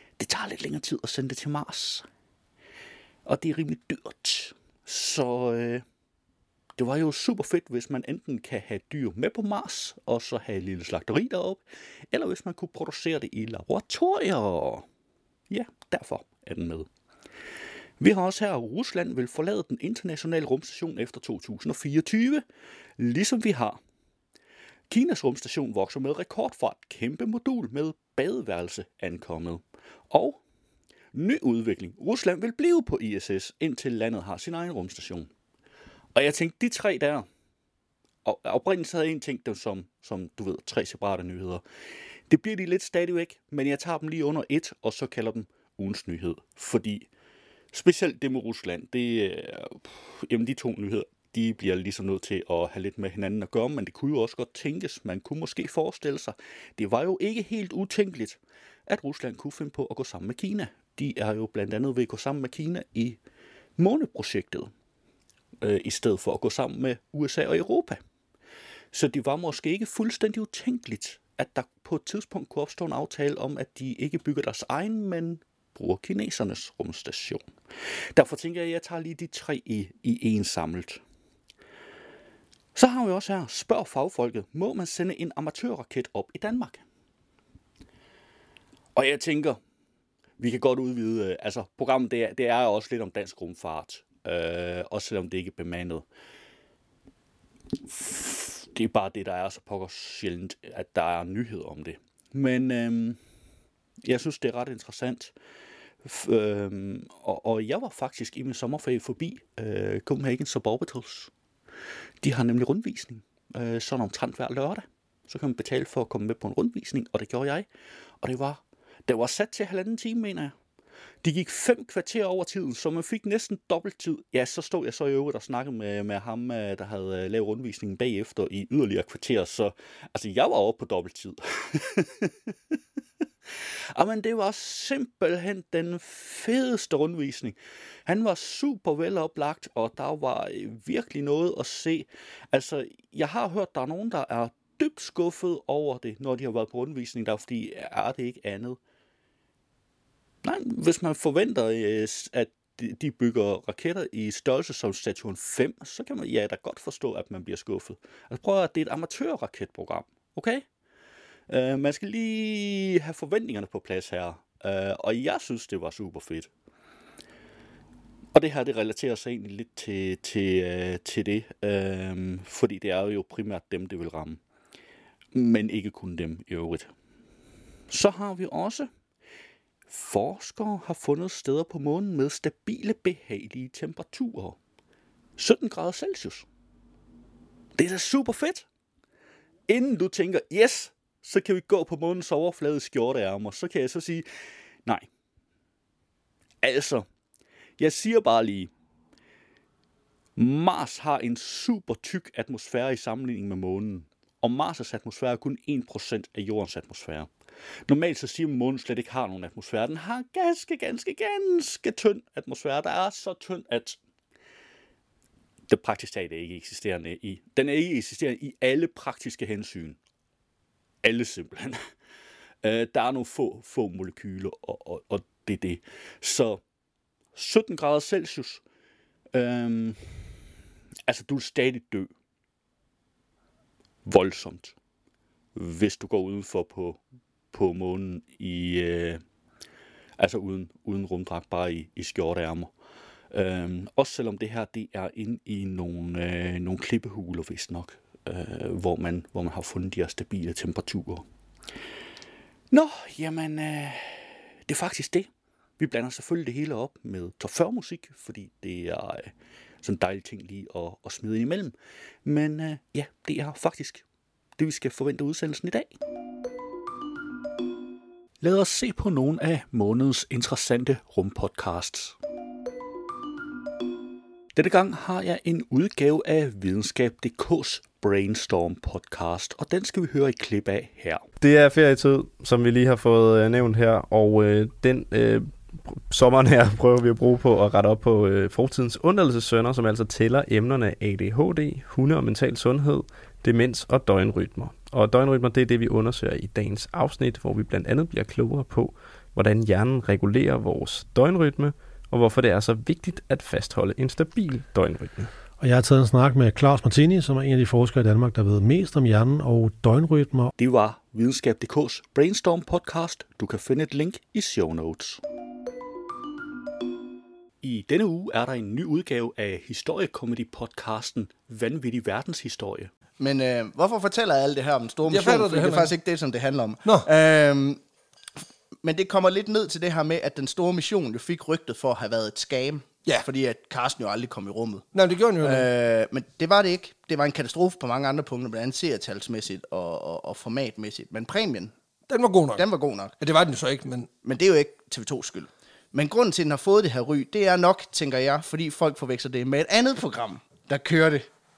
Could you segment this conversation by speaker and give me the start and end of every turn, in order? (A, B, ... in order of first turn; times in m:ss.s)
0:00.2-0:02.1 A
0:03.2-0:05.8 A
0:06.8-0:14.9 A
0:15.5-0:16.9 A
0:18.0-0:22.4 A
0:23.0-0:23.8 A
0:24.9-0:30.4 A
0:31.1-0:35.3 A
0:36.2-0:37.3 A
0:38.2-0:41.6 A
0:42.3-0:47.1 A
0:47.7-1:03.2 A
1:03.8-1:04.7 A
1:05.6-1:08.0 A
1:08.9-1:17.4 A
1:18.2-1:21.0 A
1:22.8-1:26.8 A
1:29.0-1:29.6 A
1:30.4-1:36.1 A
1:37.8-1:43.2 A
1:44.0-1:45.4 A
1:46.0-1:51.3 A
1:52.2-1:57.7 A
1:58.2-2:00.6 A
2:01.2-2:12.5 A
2:13.9-2:28.8 A
2:30.4-2:40.6 A
2:41.5-2:46.5 A
2:48.4-2:54.4 A
2:55.3-2:56.9 A
2:57.9-2:58.9 A
2:59.9-3:04.6 A
3:05.4-3:06.5 A
3:07.8-3:08.7 A
3:09.7-3:14.2 A
3:16.6-3:17.1 A
3:17.8-3:18.7 A
3:20.4-3:27.3 A
3:27.9-3:34.0 A
3:35.7-3:40.0 A
3:41.0-3:41.8 A
3:42.6-3:46.6 A
3:47.4-3:48.6 A
3:49.3-3:50.0 A
3:51.1-3:52.1 A
3:54.0-3:54.8 A
3:55.6-3:57.0 A
3:57.5-3:59.2 A
4:00.2-4:02.7 A
4:03.3-4:11.2 A
4:12.7-4:24.0 A
4:24.6-4:26.0 A
4:28.4-4:32.2 A
4:34.6-4:41.2 A
4:41.4-5:05.3 B
5:05.6-5:10.5 C
5:10.6-5:15.2 A
5:17.6-5:22.9 A
5:23.2-5:27.8 D
5:25.1-5:25.9 E
5:28.8-5:34.9 D
5:34.9-5:35.7 E
5:35.4-5:41.7 D
5:42.1-5:42.6 E
5:42.6-5:43.1 D
5:43.2-5:44.1 E
5:44.2-5:51.3 D